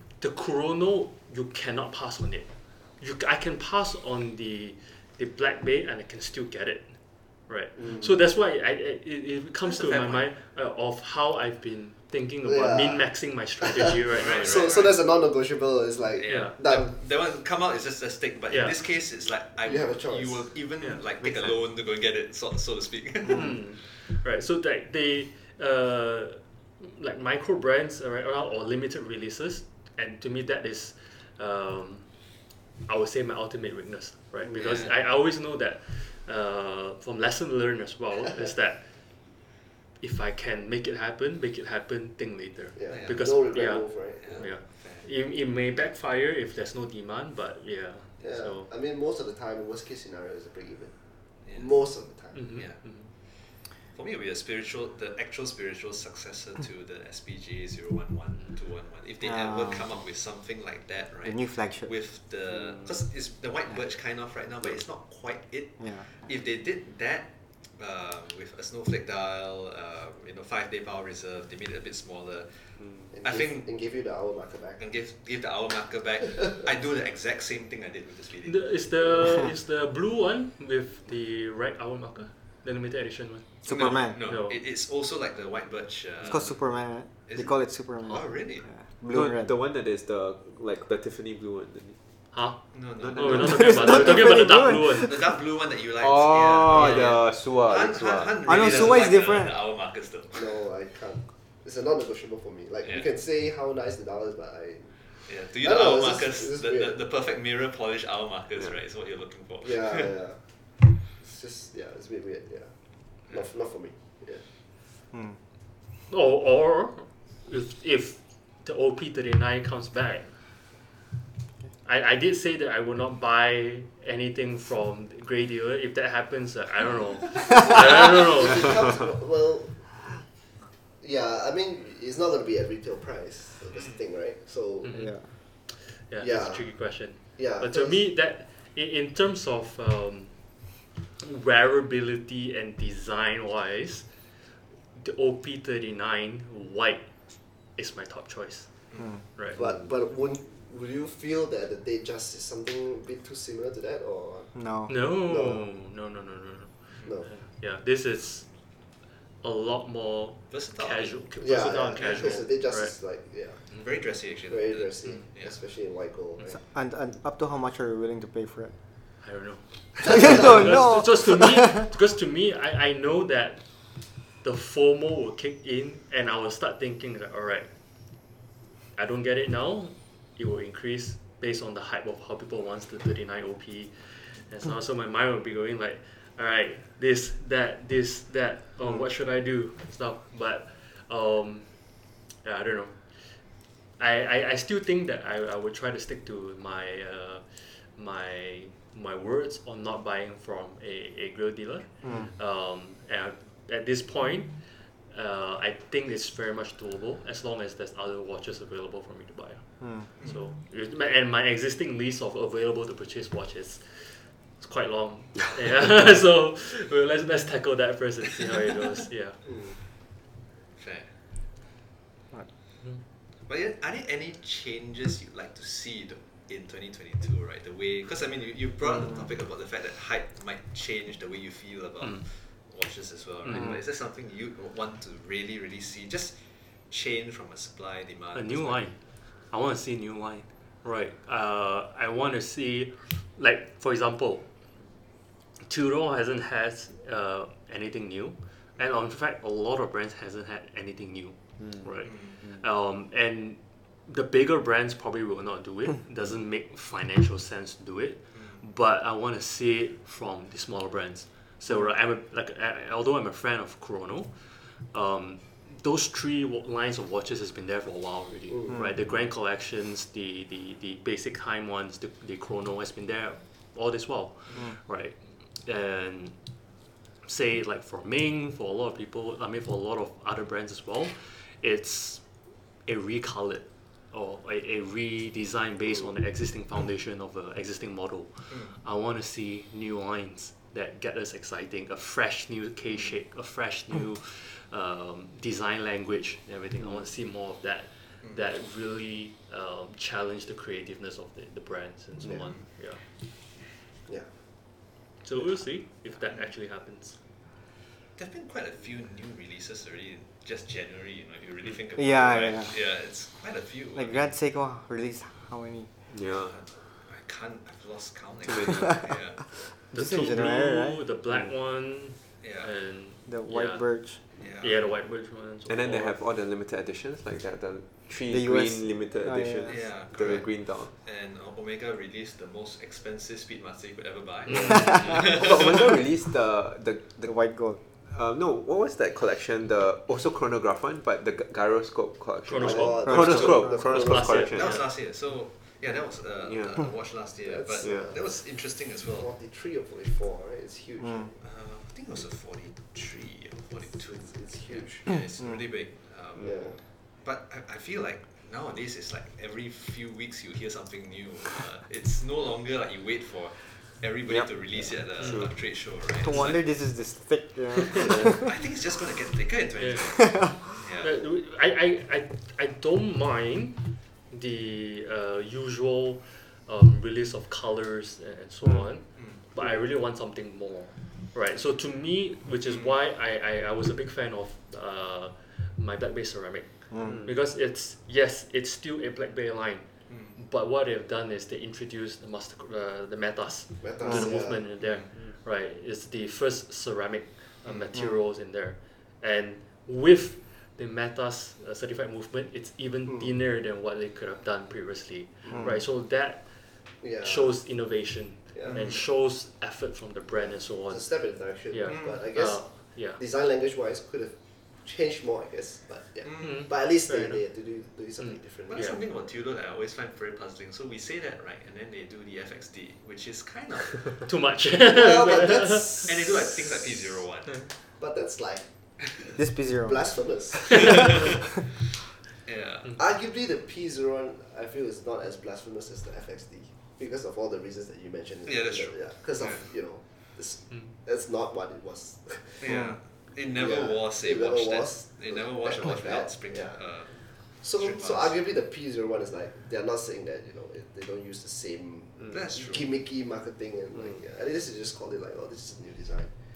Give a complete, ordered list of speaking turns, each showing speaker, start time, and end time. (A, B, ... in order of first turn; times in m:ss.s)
0:00.2-0:14.8 A
0:07.8-0:08.2 B
0:09.6-0:10.3 C
0:12.4-0:16.9 B
0:14.1-0:15.0 C
0:16.2-0:23.7 C
0:16.3-0:16.5 A
0:18.5-0:18.8 A
0:19.6-0:20.5 B
0:20.8-0:21.6 A
0:23.3-0:39.2 A
0:34.5-0:34.8 B
0:34.5-0:34.9 C
0:40.0-0:48.7 A
0:42.8-0:44.5 B
0:42.9-0:45.1 C
0:48.2-0:52.6 B
0:51.4-0:51.9 C
0:52.3-0:53.1 A
0:52.6-0:53.4 C
0:53.9-1:13.7 C
0:59.2-0:59.9 D
1:01.2-1:01.9 D
1:05.8-1:06.1 D
1:13.1-1:14.8 B
1:14.8-1:18.8 C
1:18.4-1:23.5 A
1:23.6-1:24.2 D
1:23.7-1:26.6 C
1:24.1-1:24.6 A
1:26.2-1:29.5 D
1:27.2-1:28.7 C
1:29.1-1:32.0 E
1:32.3-1:35.2 A
1:32.7-1:34.1 C
1:33.0-1:34.2 E
1:33.5-1:35.2 D
1:34.8-1:40.6 C
1:36.0-1:38.8 E
1:36.7-1:37.1 A
1:38.4-1:39.6 D
1:40.3-1:46.9 B
1:45.2-1:50.1 C
1:49.6-1:50.4 B
1:51.0-1:54.4 B
1:55.1-1:55.4 D
1:56.1-2:00.3 A
2:01.8-2:08.8 A
2:07.6-2:10.2 B
2:11.0-2:15.0 B
2:13.7-2:14.0 C
2:14.8-2:24.1 A
2:14.9-2:15.2 D
2:16.2-2:18.0 B
2:24.9-2:29.6 A
2:29.5-2:35.6 B
2:34.5-2:34.9 D
2:34.9-2:42.9 A
2:37.0-2:37.3 B
2:40.5-2:41.2 C
2:41.4-2:43.8 B
2:43.8-2:45.5 C
2:44.5-2:46.6 B
2:46.5-2:48.7 D
2:49.2-2:57.7 A
2:50.0-2:51.9 D
2:50.1-2:50.4 B
2:58.9-3:13.4 A
3:14.0-3:39.4 A
3:22.0-3:22.3 D
3:29.8-3:30.0 D
3:39.4-3:39.8 B
3:40.8-3:41.1 C
3:43.4-3:58.8 C
3:53.4-3:53.8 A
3:58.3-4:04.5 A
4:05.6-4:36.4 A
4:11.6-4:11.9 E
4:12.0-4:12.4 C
4:28.5-4:28.9 B
4:37.2-5:03.0 A
5:02.2-5:02.5 B
5:05.2-5:07.2 A
5:08.2-5:14.3 C
5:12.0-5:12.7 D
5:13.9-5:15.9 D
5:16.1-5:16.6 E
5:16.5-5:19.4 C
5:18.5-5:19.1 E
5:19.9-5:21.0 D
5:19.9-5:26.2 A
5:22.4-5:22.7 C
5:23.3-5:24.2 D
5:24.4-5:24.8 C
5:25.7-5:30.9 E
5:28.3-5:29.8 D
5:29.7-5:35.9 C
5:34.4-5:35.2 A
5:35.1-5:37.5 E
5:37.2-5:37.8 D
5:38.0-5:44.8 E
5:42.4-5:44.8 A
5:42.6-5:44.6 B
5:43.1-5:43.7 D
5:44.5-5:49.3 C
5:46.4-5:46.7 E
5:47.4-5:48.5 B
5:47.8-5:48.1 E
5:49.1-5:51.4 B
5:51.0-5:51.3 D
5:51.4-6:06.6 C
5:54.0-5:55.0 B
5:56.4-5:56.8 B
6:05.2-6:05.5 E
6:05.9-6:08.5 D
6:08.0-6:11.2 C
6:09.8-6:53.2 A
6:10.3-6:10.5 D
6:22.7-6:22.9 C
6:26.9-6:27.2 D
6:27.0-6:27.3 E
6:30.1-6:30.4 C
6:33.8-6:34.7 B
6:34.0-6:34.4 D
6:34.8-6:35.1 C
6:37.7-6:38.1 B
6:45.4-6:45.8 B
6:45.5-6:45.8 D
6:47.0-6:47.6 B
6:48.5-6:48.9 B
6:48.7-6:49.0 C
6:50.3-6:59.0 B
6:51.9-6:52.2 C
6:56.2-6:56.6 C
6:56.4-6:57.4 A
6:58.2-6:59.0 A
6:58.7-7:04.2 C
7:04.2-7:06.0 A
7:04.8-7:07.2 B
7:06.0-7:07.6 C
7:08.0-7:11.4 B
7:09.4-7:10.3 D
7:10.8-7:11.1 C
7:12.4-7:13.0 C
7:13.0-7:22.9 B
7:18.4-7:19.7 C
7:22.6-7:28.4 C
7:23.5-7:36.3 B
7:32.3-7:33.0 C